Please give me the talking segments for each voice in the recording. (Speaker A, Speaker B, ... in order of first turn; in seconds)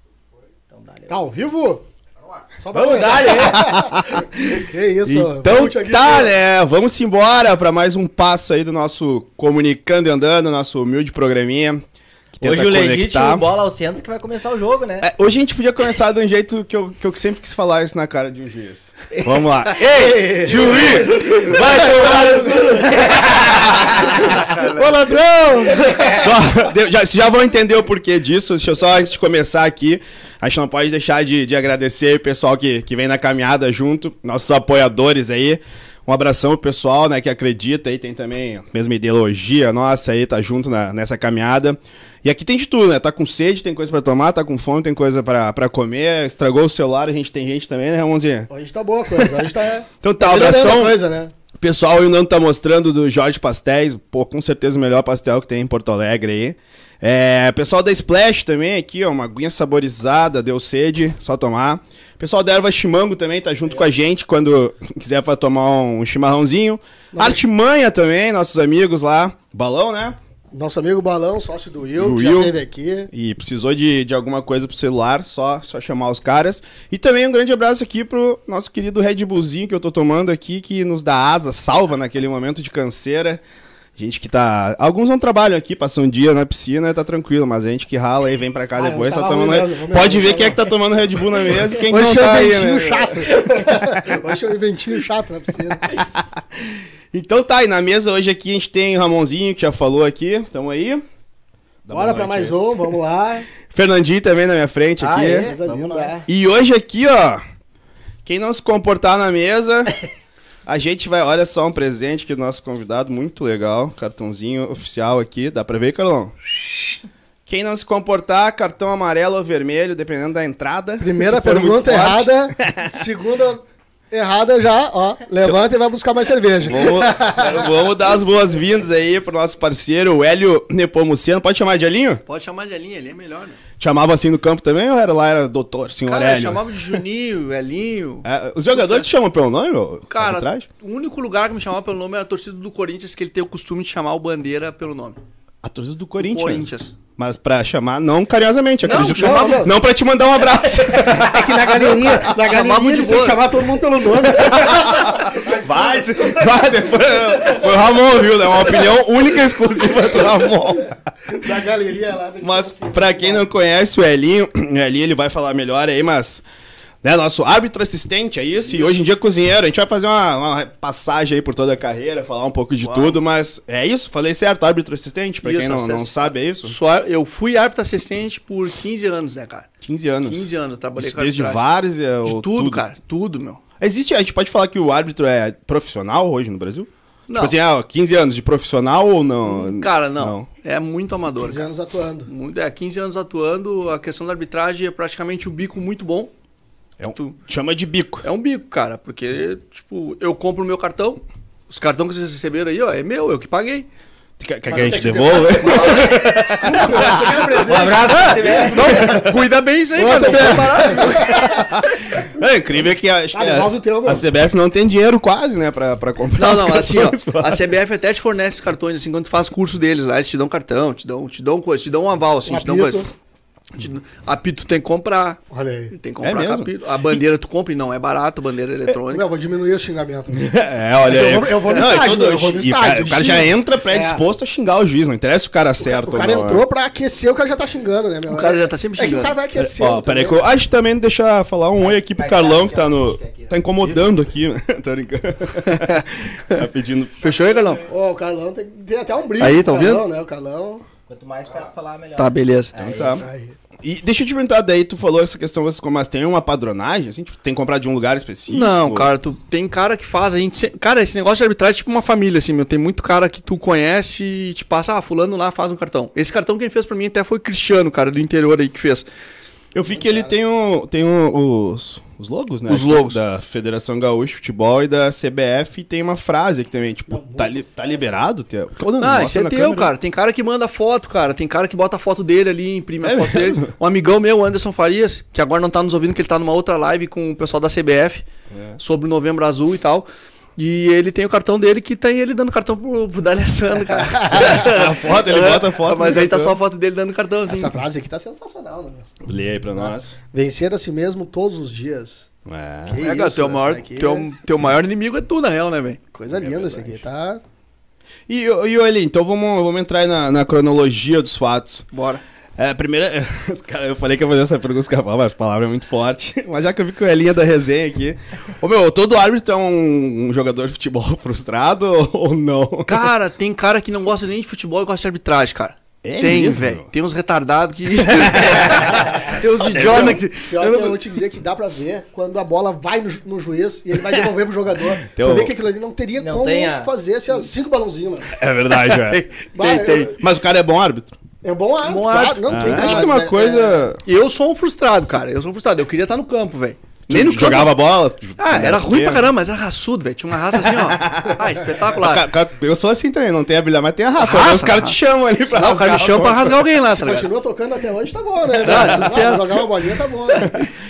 Speaker A: 0.7-1.2, 2.7-3.8, 12.4-15.1, 21.7-23.5, 105.0-106.3, 207.6-209.2, 241.8-243.6, 251.1-253.2, 336.2-336.9
Speaker B: 1.1-1.8, 2.6-6.3, 19.9-26.3, 48.5-51.3, 67.1-67.4, 70.5-73.1, 88.8-90.7, 91.7-96.0, 101.9-103.5, 105.3-106.3, 121.0-127.6, 148.8-149.7, 151.2-156.6, 161.3-163.4, 191.4-192.3, 204.8-209.3, 209.9-211.6, 213.3-214.2, 222.4-223.1, 225.5-225.9, 229.1-230.5, 231.0-234.2, 235.8-240.4, 247.9-250.8, 253.1-253.5, 270.0-270.3, 277.1-277.7, 297.5-299.0, 299.9-302.3, 302.9-304.3, 306.1-307.4, 330.5-338.3, 339.6-340.1, 341.4-343.9, 356.9-360.6
Speaker C: 3.4-11.8, 12.4-13.5, 15.0-24.3, 26.1-48.5, 50.0-51.0, 51.6-70.2, 72.0-72.5, 73.1-83.4, 84.0-94.2, 95.9-101.0, 101.8-102.6, 103.6-105.5, 106.3-107.4, 108.2-110.0, 110.7-116.3, 117.5-123.0, 126.6-132.2, 133.8-136.7, 138.2-140.7, 145.6-152.3, 154.3-161.0, 162.4-166.4, 167.0-176.8, 179.8-182.8, 183.8-190.5, 197.0-198.2, 204.4-207.4, 211.1-217.7, 226.2-226.7, 230.3-236.6, 239.6-247.3, 252.8-253.2, 253.8-259.1, 269.7-279.9, 283.0-283.7, 288.5-288.8, 294.3-296.6, 299.2-300.1, 302.4-303.1, 306.3-307.0, 308.3-311.9, 312.6-323.1, 326.0-326.9, 328.0-330.2, 335.1-335.5, 338.4-339.2, 340.1-341.1, 342.5-344.0, 347.1-349.3, 350.5-356.7, 358.6-359.1, 360.4-360.7
Speaker D: 19.8-20.8, 24.4-24.9, 132.3-133.6, 136.1-139.1, 140.1-145.2, 146.2-146.9, 148.8-149.7, 152.2-153.5, 168.7-169.0, 172.8-173.2, 175.4-181.6, 182.2-183.6, 187.3-187.6, 189.4-191.7, 192.3-196.3, 198.2-203.9, 204.7-211.7, 216.3-223.1, 223.8-229.2, 231.7-232.0, 238.3-239.4, 245.6-246.0, 247.2-247.9, 249.4-250.1, 252.2-252.7, 258.5-269.0, 272.7-273.2, 279.0-288.2, 288.8-297.8, 303.0-306.0, 311.9-312.2, 322.9-331.1, 338.7-340.1, 341.8-343.2, 344.0-347.8, 348.4-352.3, 354.2-354.9, 355.5-357.3, 358.6-359.6